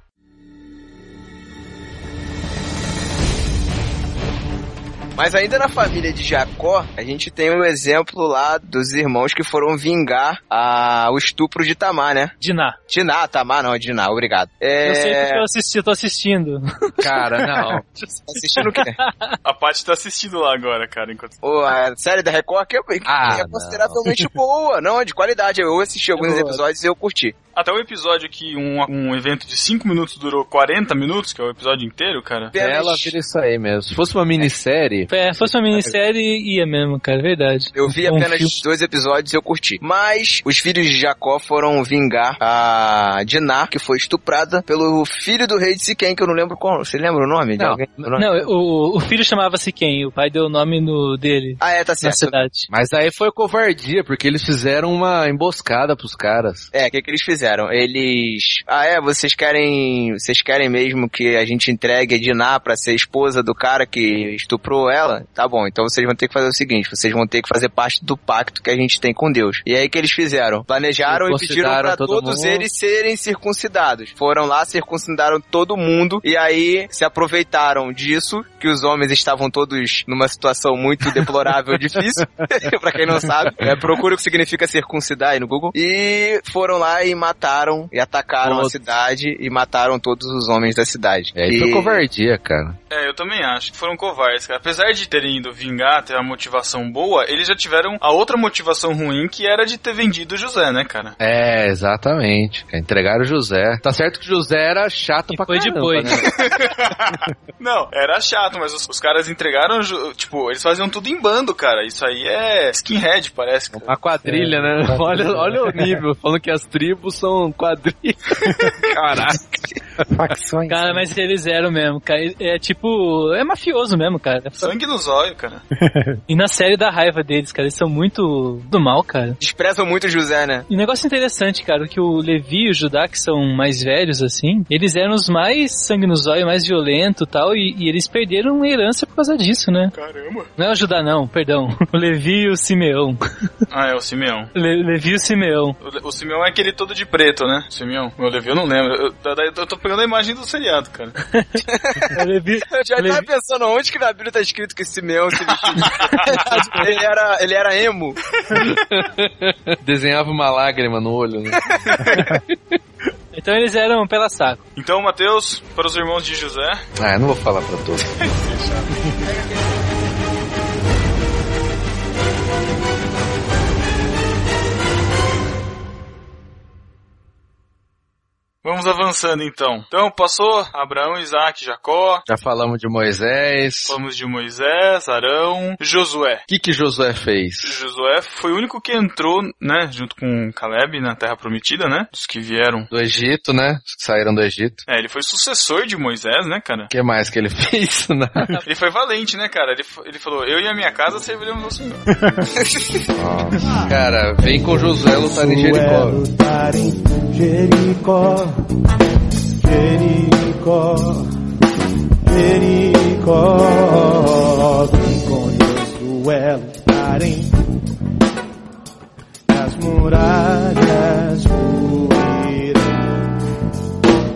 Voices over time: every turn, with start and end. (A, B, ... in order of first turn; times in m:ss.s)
0:05.2-0:12.3 A
0:12.4-0:12.8 B
0:12.9-0:15.4 A
0:14.8-0:19.4 B
0:17.0-0:17.8 C
0:18.3-0:19.0 A
0:19.4-0:21.4 D
0:21.4-0:27.3 A
0:23.0-0:24.3 C
0:26.2-0:26.6 B
0:27.5-0:32.5 D
0:32.5-0:33.1 A
0:32.5-0:36.0 C
0:35.1-0:38.6 B
0:37.7-0:48.3 A
0:47.6-0:48.1 C
0:48.2-0:52.7 B
0:51.6-0:52.4 A
0:52.7-0:56.7 C
0:56.7-1:32.0 A
1:11.0-1:12.7 C
1:22.6-1:23.2 C
1:28.4-1:28.8 C
1:31.3-1:32.8 C
1:32.9-1:41.2 D
1:41.2-1:46.4 C
1:45.3-1:46.3 B
1:46.3-1:53.9 D
1:53.8-1:59.4 C
1:54.2-1:56.0 E
2:00.1-2:01.1 E
2:00.7-2:04.7 B
2:04.6-2:05.6 D
2:05.8-2:06.2 E
2:06.3-2:09.4 B
2:09.4-2:10.7 A
2:10.7-2:19.9 B
2:19.9-2:20.5 D
2:20.6-2:23.2 B
2:23.7-2:24.5 D
2:24.5-2:25.8 B
2:25.8-2:31.1 D
2:31.2-2:31.6 B
2:31.6-2:32.1 A
2:32.1-2:33.3 B
2:32.6-2:38.2 A
2:35.7-2:36.6 D
2:36.3-2:36.8 B
2:38.5-2:42.8 C
2:41.9-2:42.2 D
2:43.3-2:44.6 B
2:44.8-2:46.8 D
2:47.0-2:48.1 C
2:48.2-2:48.9 D
2:58.6-3:02.2 D
3:02.3-3:04.0 C
3:03.8-3:06.4 D
3:06.5-3:07.8 C
3:07.6-3:12.9 D
3:12.9-3:14.8 C
3:14.9-3:16.9 D
3:16.9-3:18.6 C
3:18.6-3:22.0 D
3:23.1-3:26.2 C
3:25.0-3:28.5 F
3:29.6-3:31.3 F
3:32.3-3:37.5 F
3:39.5-3:43.0 F